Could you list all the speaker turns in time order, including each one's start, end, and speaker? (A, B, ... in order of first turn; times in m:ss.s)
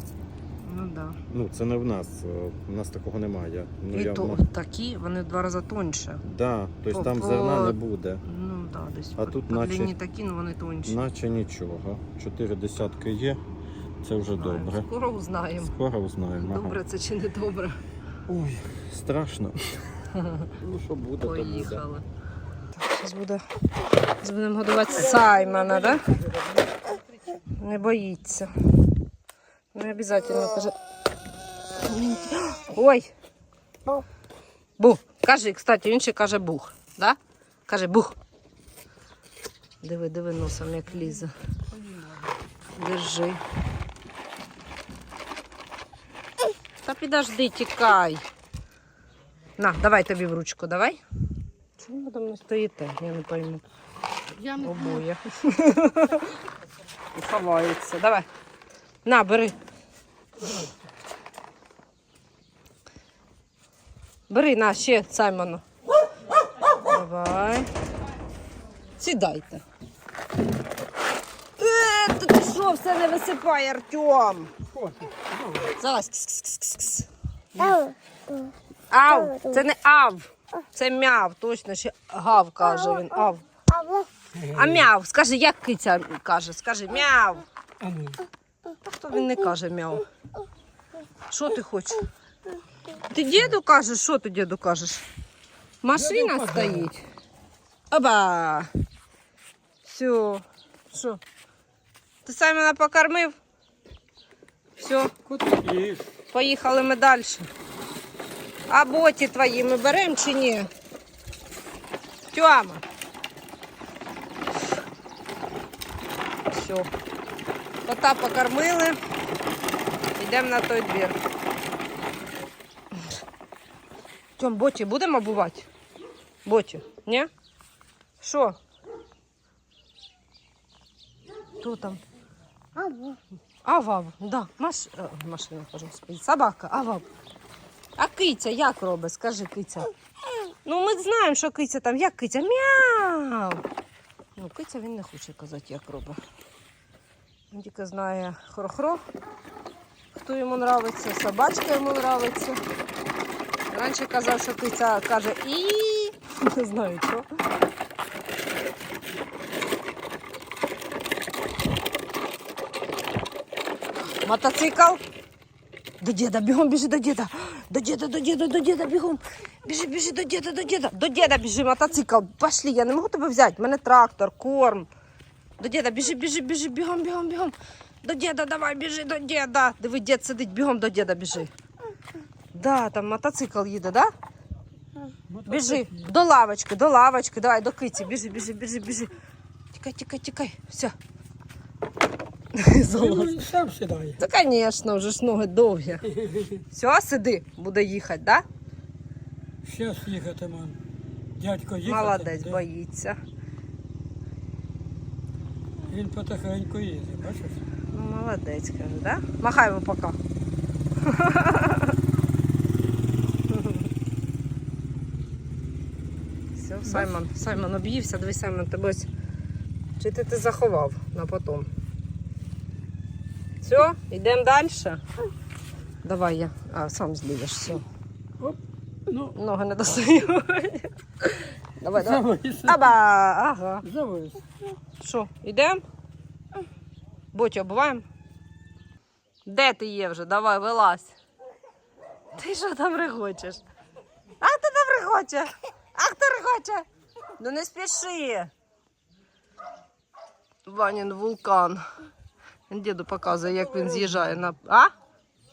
0:00.6-0:01.2 A
0:01.3-0:04.4 B
0:03.9-0:06.2 A
0:06.2-0:08.2 B
0:06.9-0:11.0 A
0:09.2-0:09.9 B
0:10.8-0:13.4 B
0:14.0-0:14.9 B
0:14.4-0:15.7 A
0:15.6-0:16.8 B
0:16.4-0:17.8 A
0:18.3-0:21.8 B
0:20.2-0:20.5 A
0:21.2-0:22.0 A
0:22.7-0:23.4 A
0:24.2-0:26.2 A
0:27.4-0:28.9 A
0:29.7-0:30.8 A
0:31.8-0:33.1 A
0:34.8-0:38.2 A
0:39.8-0:41.3 A
0:41.0-0:42.3 C
0:42.7-0:43.4 A
0:46.8-0:48.2 A
0:49.6-0:51.0 A
0:51.8-0:53.6 A
0:54.5-0:56.3 A
0:57.1-0:58.3 A
0:59.0-0:59.6 A
1:04.3-1:05.6 A
1:06.7-1:07.7 A
1:09.0-1:09.6 A
1:11.6-1:14.5 A
1:14.7-1:15.7 C
1:15.8-1:17.1 A
1:18.9-1:23.4 A
1:24.3-1:24.9 C
1:24.5-1:27.4 A
1:27.8-1:28.2 C
1:28.8-1:30.0 A
1:31.3-1:32.0 A
1:33.1-1:35.0 A
1:35.8-1:37.0 A
1:35.9-1:36.9 C
1:37.9-1:38.7 A
1:39.8-1:41.2 A
1:42.2-1:43.3 A
1:44.8-1:45.1 A
1:45.2-1:46.1 C
1:46.3-1:47.5 A
1:48.7-1:50.7 A
1:52.3-1:52.8 A
1:56.5-1:56.9 A
1:57.8-1:59.0 A
2:00.2-2:01.2 A
2:04.4-2:05.7 A
2:06.4-2:07.3 A
2:08.2-2:08.6 A
2:11.6-2:12.0 A
2:13.6-2:17.0 A
2:18.0-2:19.9 A
2:20.6-2:23.6 A
2:24.4-2:26.2 A
2:27.5-2:29.0 A
2:30.1-2:32.6 A
2:33.7-2:37.2 A
2:44.2-2:45.0 A
2:46.0-2:54.9 A
2:55.6-3:01.5 A
3:02.5-3:04.1 A
3:05.3-3:06.0 C
3:05.5-3:09.1 A
3:09.7-3:10.9 A
3:12.5-3:13.4 A
3:12.9-3:14.2 C
3:14.2-3:16.1 A
3:16.1-3:16.6 C
3:16.7-3:18.4 A
3:19.6-3:20.8 C
3:21.4-3:22.6 C
3:21.8-3:23.2 A
3:25.8-3:27.6 C
3:27.9-3:30.2 A
3:31.0-3:32.0 A
3:33.5-3:33.9 A
3:36.5-3:39.1 A
3:40.0-3:41.7 A
3:43.6-3:45.0 A
3:46.0-3:47.8 A
3:48.4-3:49.3 C
3:49.3-3:53.9 A
3:52.0-3:52.9 C
3:53.8-3:54.4 C
3:55.0-3:55.8 A
3:57.3-3:58.0 A
3:59.4-4:01.1 A
4:02.3-4:03.6 A
4:04.4-4:06.8 A
4:07.4-4:08.5 A
4:10.6-4:11.8 A
4:12.7-4:14.9 A